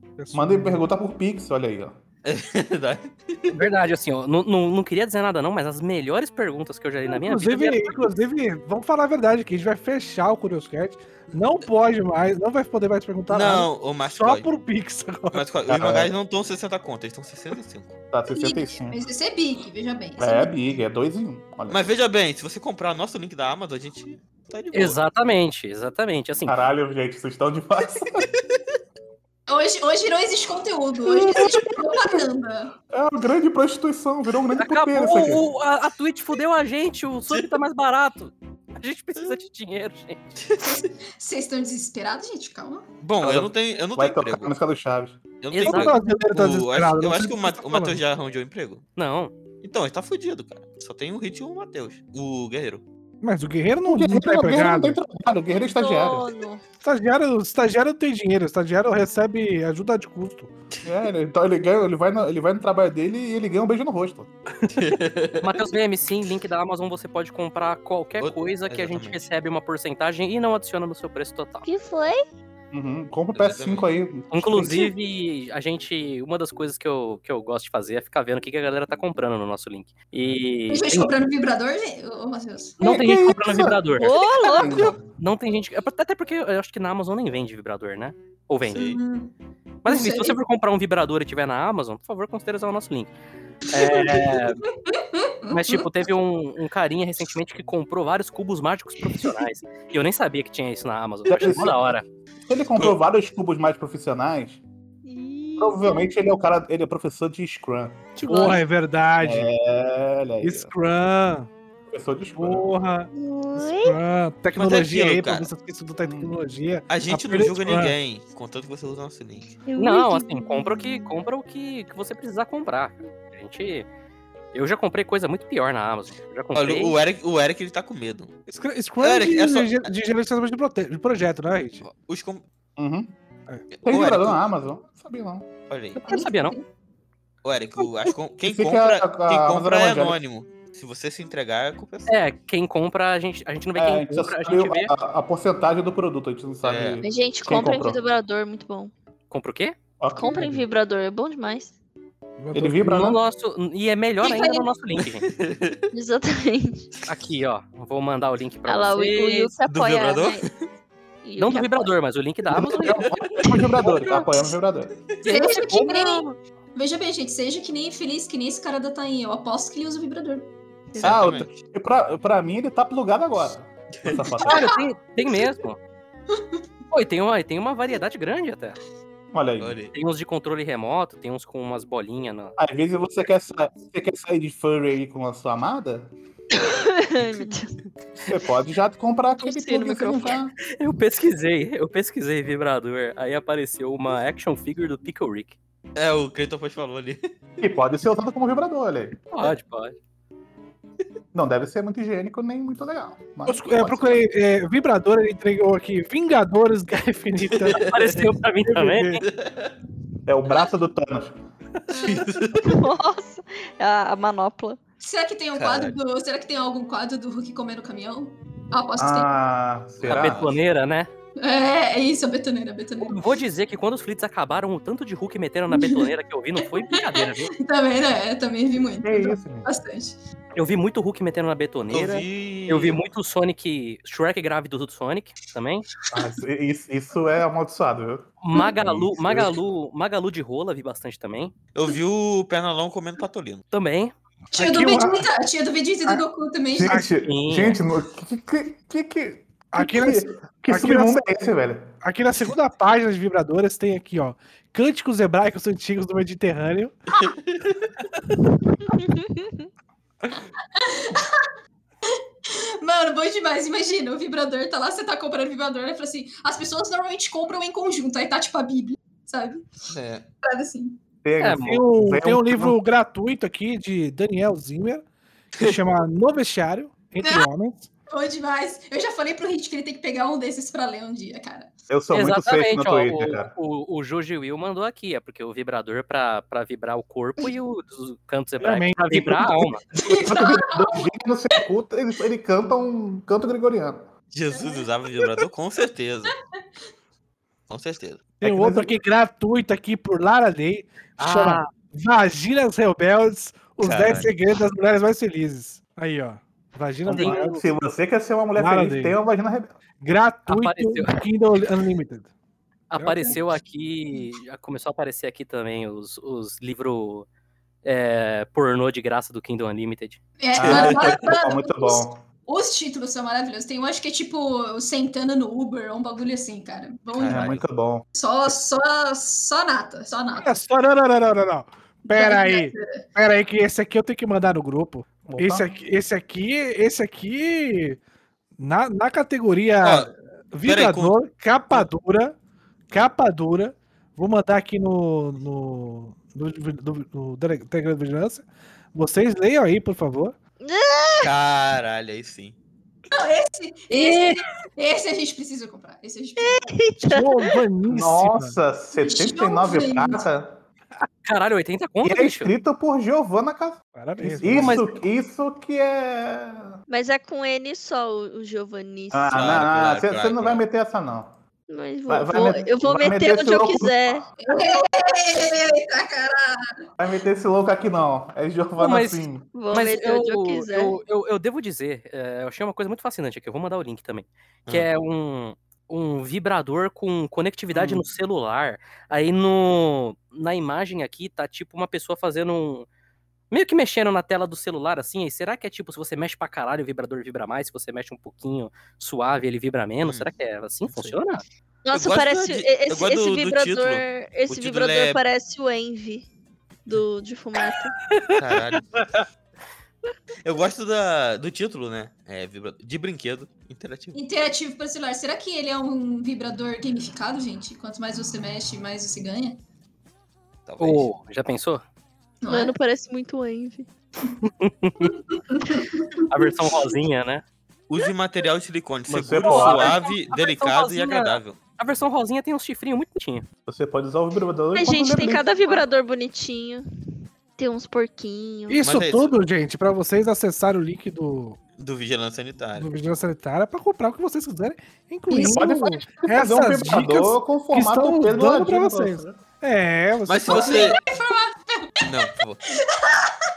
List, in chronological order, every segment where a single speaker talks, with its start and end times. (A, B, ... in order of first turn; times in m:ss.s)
0:00.2-0:00.8 A
0:00.3-0:02.0 B
0:02.2-0:03.6 C
0:03.5-0:08.0 D
0:07.1-0:15.5 A
0:13.3-0:14.5 C
0:15.3-0:18.0 C
0:15.7-0:16.1 B
0:18.1-0:19.0 B
0:18.3-0:20.5 E
0:20.2-0:21.8 B
0:21.7-0:25.0 C
0:24.7-0:26.6 D
0:26.5-0:28.3 B
0:28.3-0:28.6 C
0:29.5-0:32.7 E
0:31.1-0:32.2 B
0:32.9-0:35.5 B
0:34.6-0:40.4 D
0:40.4-0:40.8 C
0:40.7-0:42.9 E
0:43.0-0:44.5 C
0:43.2-0:45.2 B
0:45.4-0:48.8 C
0:45.5-0:45.9 D
0:45.6-0:48.0 A
0:49.0-0:49.3 D
0:49.6-0:52.8 C
0:53.2-0:55.0 A
0:53.8-0:56.3 B
0:55.7-0:56.6 F
0:56.8-1:00.5 A
1:00.8-1:04.3 B
1:04.7-1:05.6 C
1:05.4-1:11.7 D
1:08.2-1:09.3 C
1:11.7-1:12.3 F
1:12.7-1:14.9 B
1:13.4-1:13.9 C
1:14.3-1:21.1 D
1:20.7-1:22.8 E
1:22.8-1:25.0 B
1:22.8-1:29.0 D
1:24.0-1:25.0 F
1:28.7-1:29.0 C
1:28.7-1:29.3 E
1:29.8-1:33.1 D
1:29.9-1:30.4 E
1:33.7-1:34.6 D
1:33.7-1:35.9 E
1:35.5-1:42.1 D
1:41.3-1:42.0 B
1:42.5-1:44.6 B
1:45.0-1:46.2 F
1:45.6-1:48.0 B
1:48.2-1:49.5 A
1:49.2-1:50.7 B
1:50.4-1:51.5 A
1:51.9-1:52.7 B
1:52.4-1:58.0 A
1:53.1-1:54.0 F
1:54.5-1:55.5 C
1:56.0-1:56.4 B
1:56.9-1:59.6 C
1:59.7-2:01.1 F
1:59.8-2:03.9 D
2:04.5-2:07.0 D
2:06.6-2:08.3 C
2:08.5-2:11.8 A
2:09.0-2:09.9 C
2:11.8-2:12.4 C
2:12.8-2:13.1 B
2:13.7-2:14.4 C
2:13.8-2:15.5 B
2:15.7-2:16.0 C
2:16.0-2:16.6 D
2:16.0-2:16.6 E
2:17.4-2:22.2 C
2:18.4-2:20.2 B
2:22.1-2:24.9 D
2:23.8-2:28.0 B
2:26.6-2:27.0 C
2:27.0-2:28.9 F
2:29.3-2:29.8 D
2:30.0-2:30.7 B
2:30.2-2:31.7 F
2:32.4-2:33.1 A
2:32.5-2:33.2 B
2:32.8-2:35.3 D
2:34.3-2:34.6 E
2:35.2-2:35.9 C
2:35.9-2:36.9 F
2:37.1-2:39.5 D
2:38.7-2:40.4 F
2:39.7-2:40.6 C
2:41.2-2:41.9 F
2:41.4-2:43.4 D
2:42.5-2:44.9 B
2:43.4-2:44.4 F
2:45.2-2:45.9 D
2:45.2-2:50.5 E
2:45.3-2:46.2 F
2:51.0-2:54.7 B
2:51.0-2:51.6 C
2:53.9-2:54.3 C
2:54.4-2:55.8 D
2:54.5-2:54.8 E
2:56.9-2:58.8 D
2:59.3-2:59.8 B
2:59.6-2:59.9 C
2:59.9-3:02.6 D
3:02.6-3:06.1 B
3:06.6-3:07.7 F
3:08.2-3:10.5 B
3:09.4-3:10.4 F
3:10.7-3:15.6 D
3:16.0-3:17.3 C
3:17.6-3:19.2 B
3:19.3-3:20.0 D
3:21.3-3:24.2 B
3:23.5-3:28.2 A
3:27.5-3:27.9 C
3:27.8-3:29.2 D
3:28.8-3:29.0 A
3:29.2-3:29.7 C
3:30.3-3:31.4 B
3:31.9-3:32.8 C
3:31.9-3:32.3 E
3:32.6-3:34.8 F
3:35.0-3:39.3 E
3:35.6-3:36.0 C
3:39.0-3:40.5 B
3:40.0-3:40.5 C
3:40.0-3:41.1 D
3:41.4-3:43.2 E
3:43.0-3:47.5 D
3:45.7-3:46.1 E
3:46.8-3:50.2 E
3:49.0-3:49.7 B
3:50.6-3:55.9 D
3:51.9-3:53.0 C
3:56.1-3:59.6 B
3:58.4-4:01.5 D
4:01.8-4:03.6 C
4:03.7-4:04.1 D
4:04.5-4:05.3 A
4:04.5-4:07.0 E
4:06.8-4:12.0 B
4:07.1-4:07.8 D
4:09.7-4:11.2 A
4:12.0-4:17.0 A
4:17.1-4:17.9 C
4:19.0-4:19.5 F
4:20.8-4:21.4 E
4:22.5-4:29.9 E
4:29.9-4:30.3 C
4:30.4-4:31.0 E
4:31.2-4:32.8 B
4:31.4-4:31.8 D
4:31.6-4:37.9 A
4:37.2-4:37.5 E
4:38.1-4:41.7 E
4:41.9-4:43.5 B
4:42.1-4:49.8 D
4:48.6-4:49.7 A
4:49.9-4:51.6 E
4:50.1-4:54.1 B
4:54.3-4:56.3 C
4:54.5-4:54.9 E
4:57.7-4:58.4 C
4:58.4-4:59.0 B
4:58.4-5:07.7 A
5:01.2-5:01.7 D
5:03.8-5:04.3 C
5:07.1-5:07.4 D
5:07.1-5:09.8 B
5:08.6-5:09.2 A
5:10.0-5:12.3 A
5:10.5-5:11.2 D
5:12.9-5:17.3 D
5:13.0-5:13.3 A
5:17.8-5:20.2 D
5:20.4-5:27.6 E
5:20.6-5:22.2 B
5:20.6-5:21.2 C
5:27.2-5:27.6 C
5:27.3-5:28.0 B
5:28.1-5:30.6 E
5:30.4-5:38.0 A
5:32.0-5:33.1 E
5:35.3-5:35.7 B
5:38.6-5:42.4 A
5:39.8-5:40.1 C
5:40.6-5:41.9 C
5:42.9-5:50.4 A
5:50.6-5:51.3 F
5:51.2-5:52.6 C
5:53.1-5:56.7 E
5:53.9-5:54.2 D
5:56.4-5:57.6 F
5:57.0-5:58.6 A
5:57.8-6:00.6 B
5:59.0-6:00.2 E
6:01.2-6:02.5 D
6:02.0-6:06.8 B
6:03.9-6:04.8 A
6:04.5-6:04.9 D
6:06.9-6:09.4 F
6:09.1-6:11.3 B
6:09.3-6:10.6 C
6:11.7-6:14.2 F
6:12.1-6:14.3 B
6:14.4-6:16.9 E
6:17.0-6:19.5 B
6:18.8-6:32.9 D
6:19.5-6:21.0 F
6:33.5-6:41.4 D
6:40.0-6:40.3 C
6:41.8-6:46.3 F
6:41.9-6:45.2 C
6:46.9-6:47.9 F
6:48.4-6:48.9 C
6:50.4-6:54.2 C
6:54.1-6:59.6 E
7:00.7-7:01.1 C
7:00.8-7:01.8 D
7:02.4-7:02.8 E
7:02.5-7:03.9 F
7:04.5-7:05.2 D
7:05.1-7:06.3 E
7:06.3-7:07.4 D
7:07.9-7:11.6 C
7:09.1-7:13.5 D
7:09.1-7:10.0 B
7:13.7-7:15.8 B
7:14.7-7:16.9 F
7:17.6-7:18.8 F
7:18.7-7:21.6 A
7:18.8-7:19.3 C
7:21.8-7:22.9 C
7:22.8-7:30.8 A
7:25.3-7:29.4 B
7:30.2-7:31.0 C
7:30.4-7:33.3 E
7:32.0-7:32.6 C